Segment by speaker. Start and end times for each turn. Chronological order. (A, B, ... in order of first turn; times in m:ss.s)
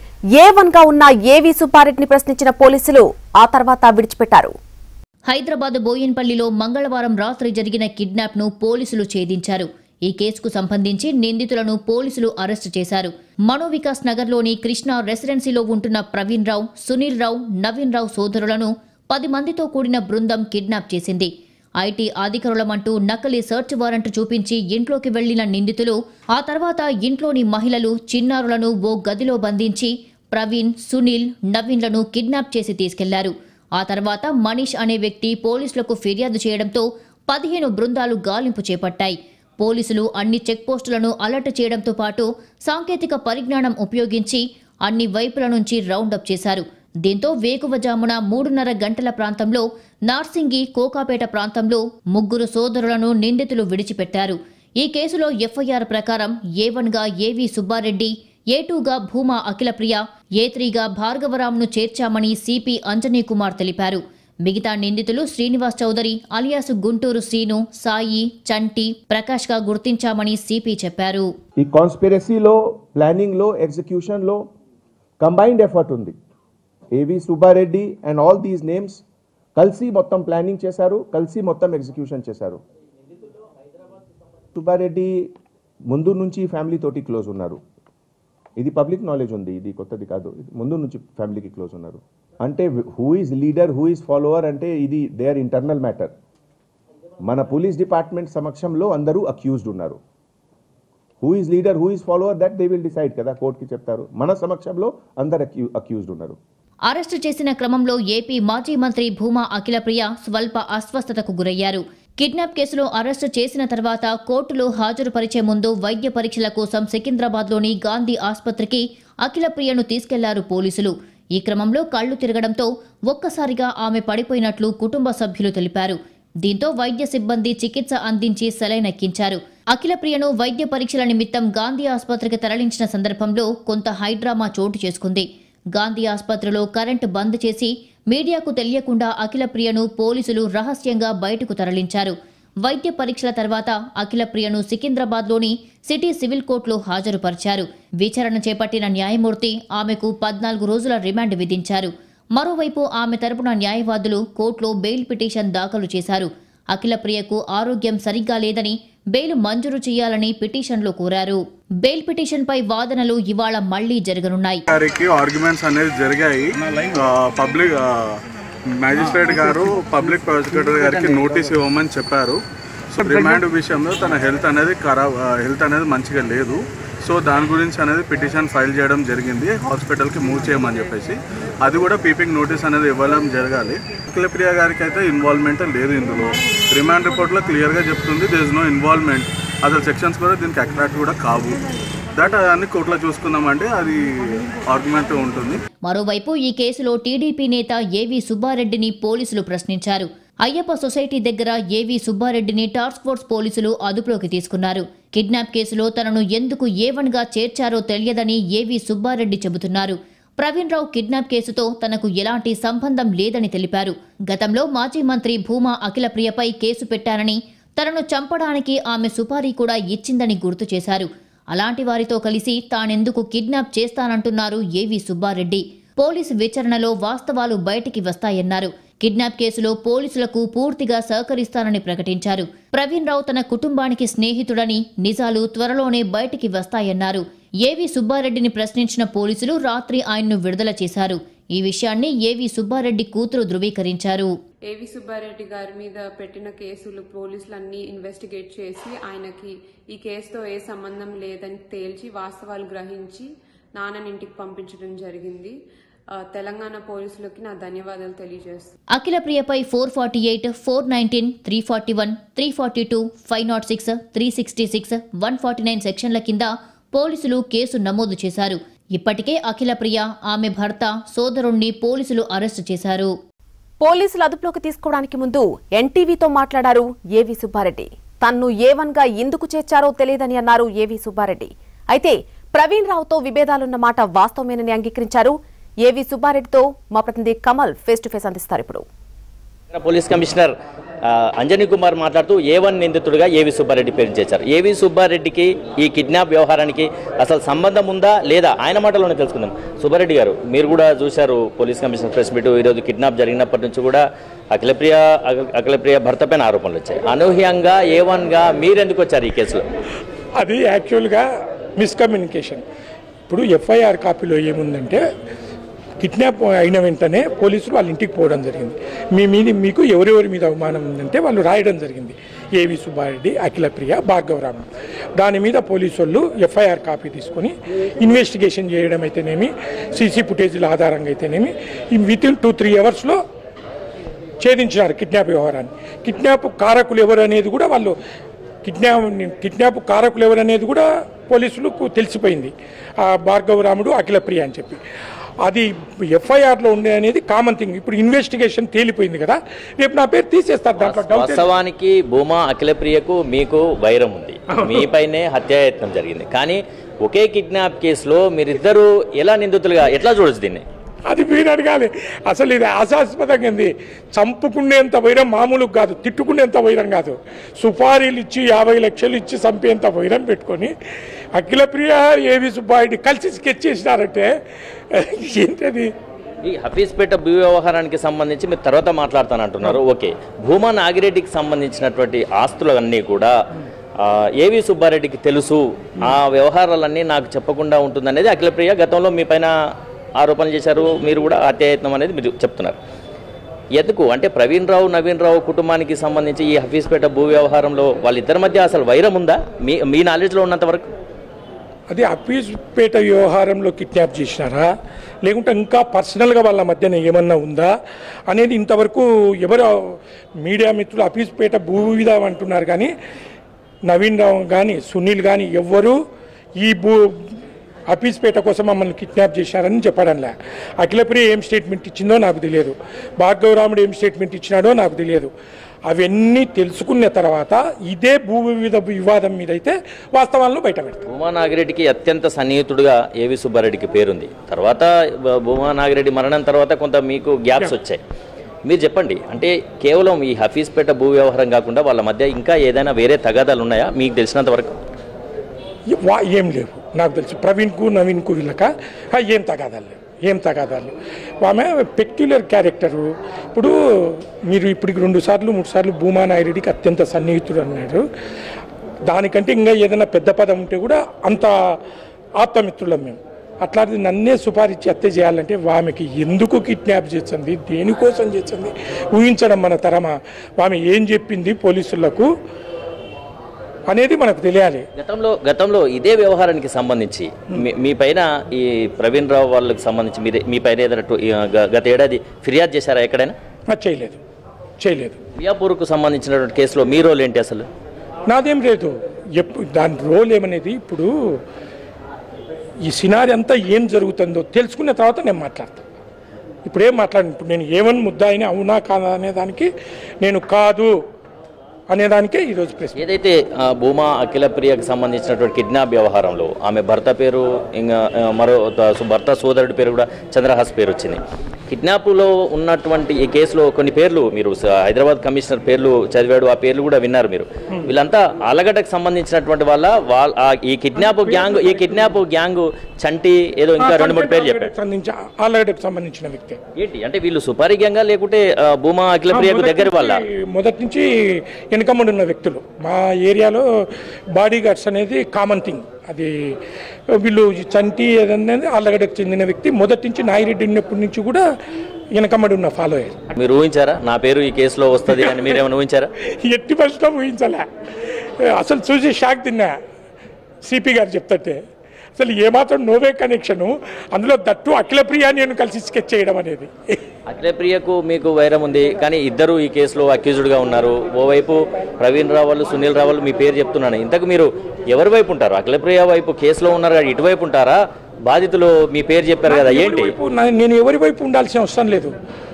0:00.3-0:04.5 A
0:05.3-1:11.3 B
1:11.6-1:14.4 C
1:15.2-1:16.2 C
1:16.9-1:19.0 C
1:19.6-1:22.6 C
1:24.5-1:25.3 C
1:25.9-1:27.6 C
1:28.6-1:36.1 C
1:37.2-1:40.0 C
1:41.2-1:46.4 C
1:46.9-2:44.6 B
2:44.7-2:48.2 D
2:48.7-2:52.4 D
2:52.9-3:11.6 D
3:12.2-3:15.6 D
3:15.8-4:04.3 B
4:04.7-4:15.6 E
4:16.2-4:18.7 E
4:18.9-4:33.1 B
4:33.8-4:48.8 A
4:49.7-4:50.5 F
4:51.1-5:09.6 F
5:10.4-5:11.2 G
5:11.8-5:12.6 G
5:13.3-5:15.0 G
5:16.0-5:33.2 G
5:34.4-5:37.9 G
5:38.6-5:44.8 G
5:45.4-5:51.5 G
5:50.8-6:00.6 F
5:54.6-5:54.8 G
6:01.1-6:10.7 G
6:11.4-6:14.3 G
6:14.9-6:15.9 G
6:16.4-6:23.3 F
6:24.0-6:29.5 F
6:30.2-6:32.8 F
6:33.8-6:40.9 F
6:41.9-6:44.7 G
6:45.2-6:47.7 G
6:48.3-6:52.9 G
6:53.9-6:56.0 G
6:56.6-6:56.9 G
6:57.9-7:05.3 G
7:05.9-7:11.0 G
7:11.1-7:18.0 F
7:18.6-7:24.7 F
7:25.9-7:38.0 G
7:39.1-7:41.5 G
7:42.4-7:52.3 G
7:53.9-7:54.8 G
7:55.0-8:03.3 F
8:03.7-8:04.2 G
8:04.8-8:05.2 G
8:05.4-8:07.6 F
8:08.3-8:11.1 G
8:12.8-8:15.8 G
8:16.6-8:19.7 G
8:20.2-8:20.9 G
8:21.9-8:23.0 G
8:23.0-8:44.7 F
8:41.0-8:42.0 G
8:43.8-8:46.6 G
8:46.8-8:50.2 F
8:49.3-8:51.0 G
8:51.7-8:53.6 G
8:54.4-8:56.3 G
8:57.2-9:01.4 G
9:02.2-9:03.2 G
9:03.4-9:06.1 F
9:05.1-9:05.5 G
9:06.4-9:07.6 G
9:08.6-9:09.7 G
9:10.6-9:11.6 G
9:12.2-9:17.0 G
9:17.3-9:30.1 F
9:29.5-9:32.1 G